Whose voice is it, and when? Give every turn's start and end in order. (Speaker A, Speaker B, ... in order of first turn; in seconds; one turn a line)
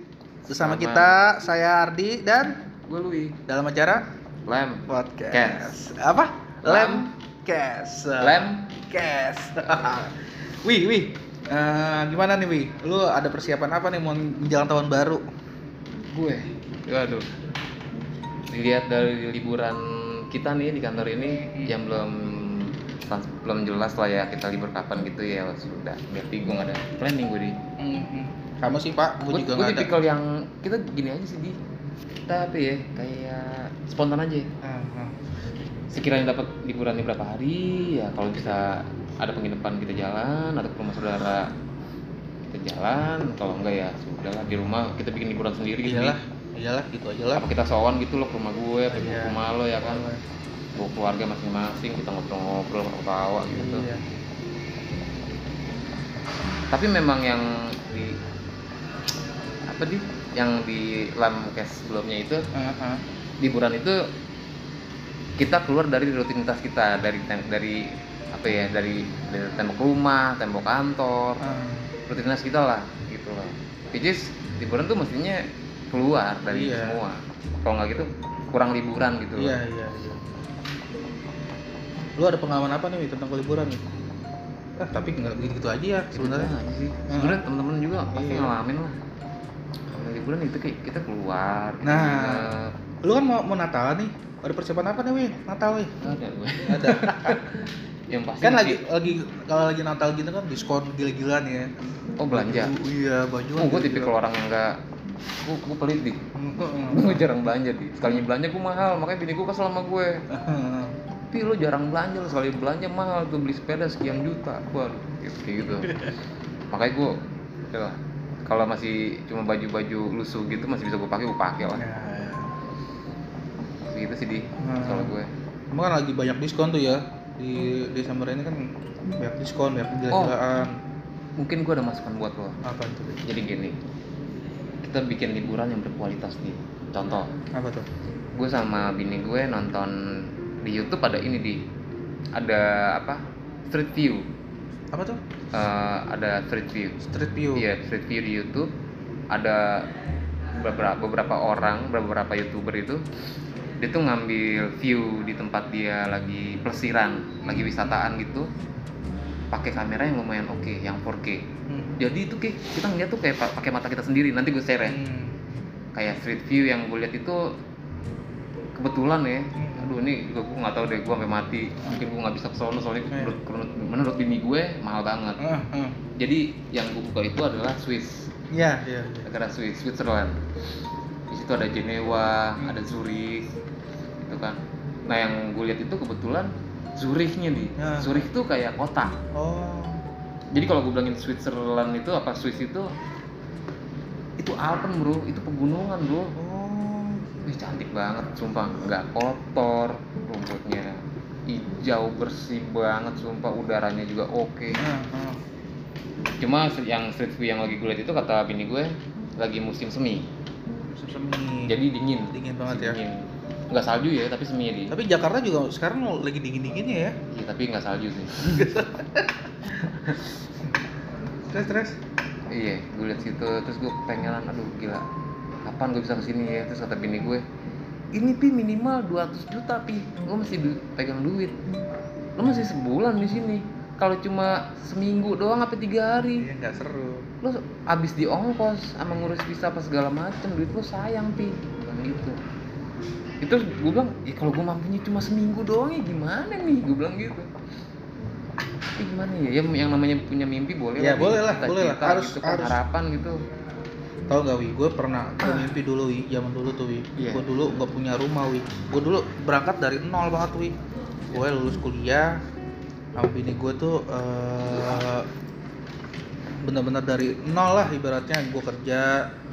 Speaker A: 0.5-1.2
Speaker B: 0.5-2.6
Speaker A: 2.9-3.4
Speaker B: 3.5-4.1
Speaker A: 4.5-5.8
Speaker B: 4.9-15.2
Speaker A: 6.6-7.1
Speaker A: 8.2-8.7
Speaker A: 16.1-17.3
Speaker A: 18.5-27.6
Speaker B: 27.8-29.9
Speaker A: 29.3-31.6
Speaker A: 32.3-34.5
Speaker B: 34.6-35.1
Speaker A: 35.9-41.5
Speaker A: 42.5-46.2
Speaker B: 45.8-47.4
Speaker A: 47.4-50.1
Speaker B: 48.9-50.2
Speaker A: 50.8-53.9
Speaker B: 53.5-54.0
Speaker A: 56.7-58.2
Speaker A: 59.7-62.5
Speaker B: 62.5-63.0
Speaker A: 63.4-64.0
Speaker A: 65.4-67.8
Speaker A: 68.3-71.4
Speaker B: 71.4-71.9
Speaker A: 72.1-79.6
Speaker B: 76.5-77.0
Speaker B: 79.4-80.2
Speaker B: 82.2-83.8
Speaker B: 84.8-86.5
Speaker A: 86.1-89.0
Speaker B: 87.1-87.4
Speaker B: 88.1-88.6
Speaker A: 89.9-92.7
Speaker B: 91.8-92.5
Speaker B: 93.0-95.9
Speaker A: 96.0-98.8
Speaker B: 96.7-97.4
Speaker B: 98.4-101.7
Speaker A: 102.2-102.7
Speaker B: 102.3-104.2
Speaker A: 103.6-104.8
Speaker A: 105.4-106.2
Speaker B: 106.4-107.3
Speaker A: 106.9-110.2
Speaker B: 110.3-110.9
Speaker A: 111.3-116.0
Speaker A: 116.7-117.1
Speaker A: 117.7-121.8
Speaker B: 121.8-122.5
Speaker A: 123.9-125.3
Speaker B: 124.6-125.2
Speaker B: 125.7-128.7
Speaker B: 129.2-130.8
Speaker A: 130.1-130.4
Speaker A: 131.4-132.6
Speaker B: 132.7-133.2
Speaker A: 133.2-133.8
Speaker A: 134.8-137.3
Speaker B: 137.6-137.9
Speaker A: 138.3-139.9
Speaker A: 140.6-141.6
Speaker A: 142.4-144.3
Speaker B: 144.9-145.2
Speaker A: 145.5-147.0
Speaker B: 147.0-147.7
Speaker A: 147.6-148.7
Speaker A: 149.3-149.9
Speaker A: 150.6-153.0
Speaker A: 153.8-158.5
Speaker B: 157.5-157.7
Speaker A: 159.5-161.4
Speaker B: 161.7-162.0
Speaker A: 162.0-165.0
Speaker B: 164.9-165.3
Speaker A: 165.9-167.4
Speaker A: 168.8-175.4
Speaker B: 169.6-169.9
Speaker B: 173.1-173.4
Speaker B: 175.4-175.9
Speaker A: 176.2-178.3
Speaker B: 178.5-179.3
Speaker A: 179.3-180.4
Speaker A: 181.3-183.5
Speaker A: 184.2-189.2
Speaker B: 187.8-188.3
Speaker B: 189.3-190.0
Speaker A: 190.5-192.9
Speaker A: 194.4-196.3
Speaker B: 196.4-197.2
Speaker A: 197.4-204.9
Speaker B: 204.8-205.4
Speaker A: 206.4-210.3
Speaker B: 210.9-211.7
Speaker A: 211.7-215.0
Speaker B: 212.3-213.0
Speaker B: 214.9-217.2
Speaker A: 217.3-218.8
Speaker B: 218.5-219.2
Speaker A: 219.7-220.2
Speaker B: 221.5-222.0
Speaker A: 222.5-225.0
Speaker A: 225.7-227.4
Speaker A: 228.1-231.6
Speaker A: 232.4-236.5
Speaker B: 236.4-237.3
Speaker A: 237.4-242.4
Speaker A: 243.4-247.5
Speaker A: 249.0-253.4
Speaker B: 251.0-252.8
Speaker B: 254.3-260.8
Speaker A: 257.2-257.5
Speaker B: 261.3-262.4
Speaker B: 263.2-265.3
Speaker B: 266.6-269.3